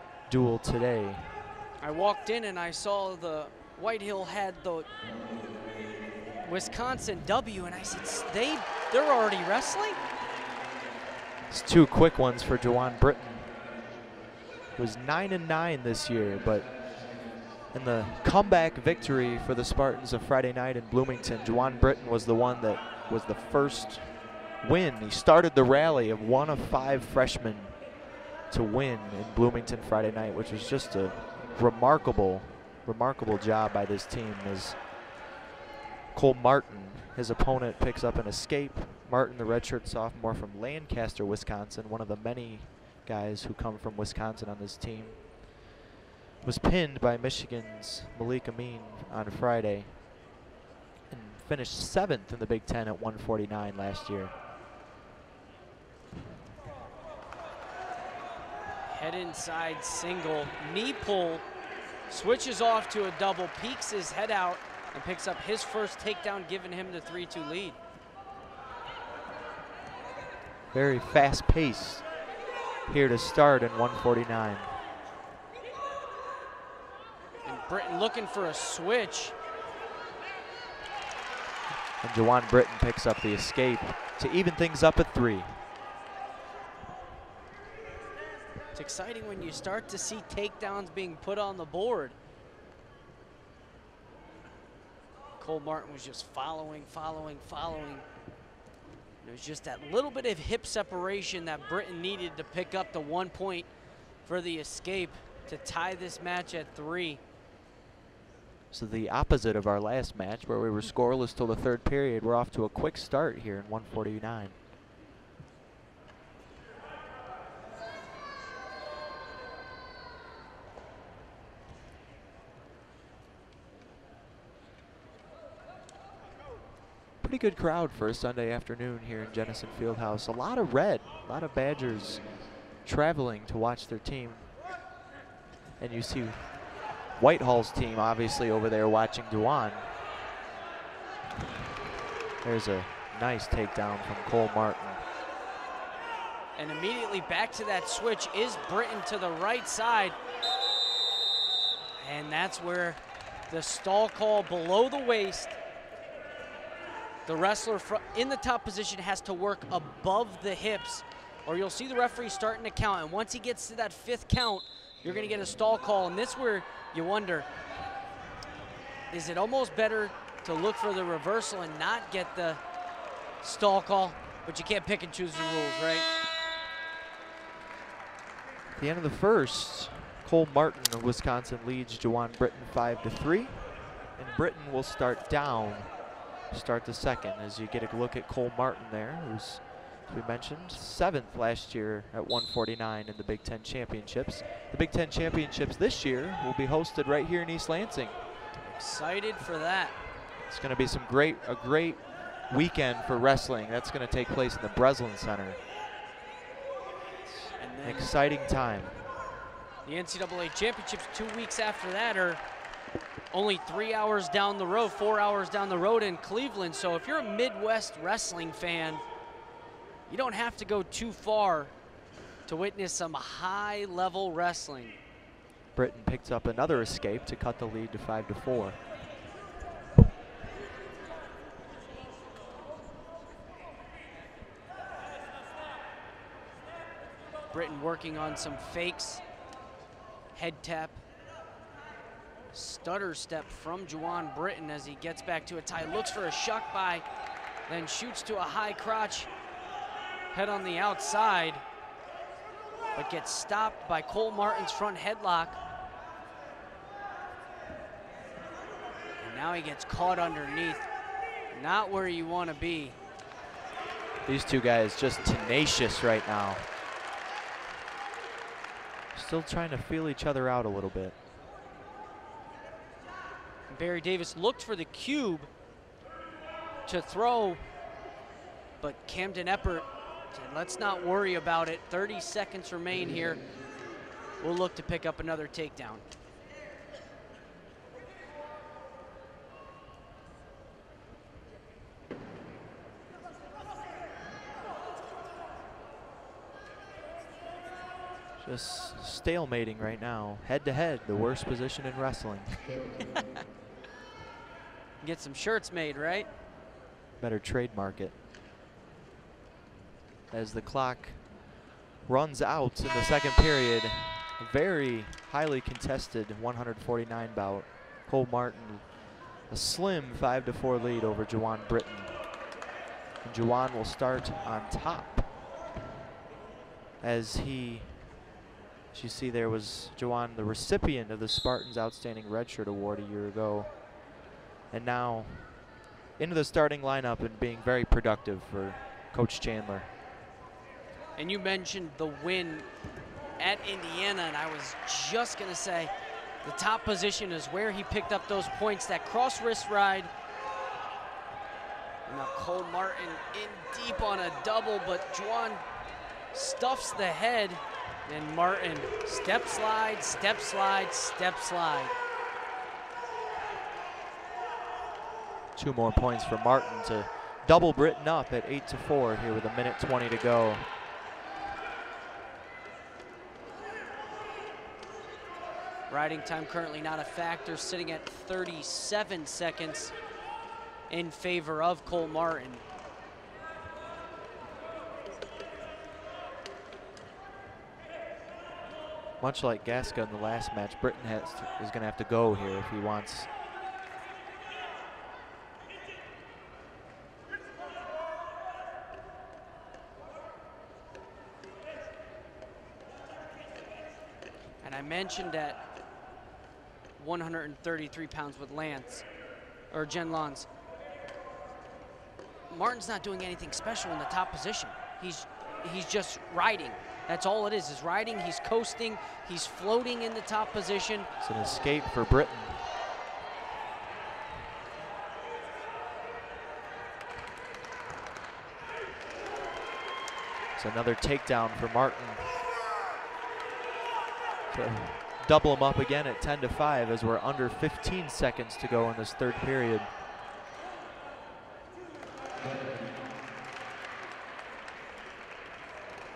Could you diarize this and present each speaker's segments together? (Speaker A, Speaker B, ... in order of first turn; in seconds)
Speaker A: 0.3-1.4, 11.5-13.5, 14.8-16.8, 17.7-27.9, 28.5-34.9, 36.1-45.5, 46.4-50.0, 51.1-54.4, 70.7-72.1, 72.9-74.8, 82.0-85.6, 108.7-114.6, 127.2-134.6, 135.8-140.0, 142.4-145.0, 178.8-198.2, 200.4-205.6, 207.3-209.1, 225.8-228.9, 264.2-266.7, 269.1-271.2, 298.4-302.8, 307.2-308.2, 310.3-311.4, 312.1-322.4, 323.2-325.3, 327.0-328.2, 328.9-333.9, 334.7-339.9, 365.6-370.7, 389.2-393.3, 421.2-422.7, 430.6-432.5, 434.5-440.0
Speaker B: 1.8-4.9, 6.4-10.0, 58.9-61.5, 62.1-67.8, 77.5-79.4, 88.7-92.2, 95.4-98.1, 99.2-103.7, 104.2-107.2, 146.6-150.2, 152.0-155.6, 157.3-167.5, 169.1-172.6, 173.4-176.1, 198.6-200.0, 207.6-208.1, 209.8-212.4, 213.3-219.0, 220.1-221.7, 222.5-225.0, 237.5-239.2, 240.3-241.0, 242.5-247.1, 247.7-249.3, 250.3-251.6, 252.9-255.6, 259.2-260.9, 261.5-263.0, 273.7-275.5, 276.9-277.6, 278.8-283.4, 284.4-286.1, 305.0-306.3, 341.2-342.7, 343.4-345.9, 346.4-350.1, 352.1-355.6, 356.3-362.0, 375.9-379.9, 380.9-382.6, 404.6-405.6, 407.0-409.1, 409.7-410.5, 412.5-421.1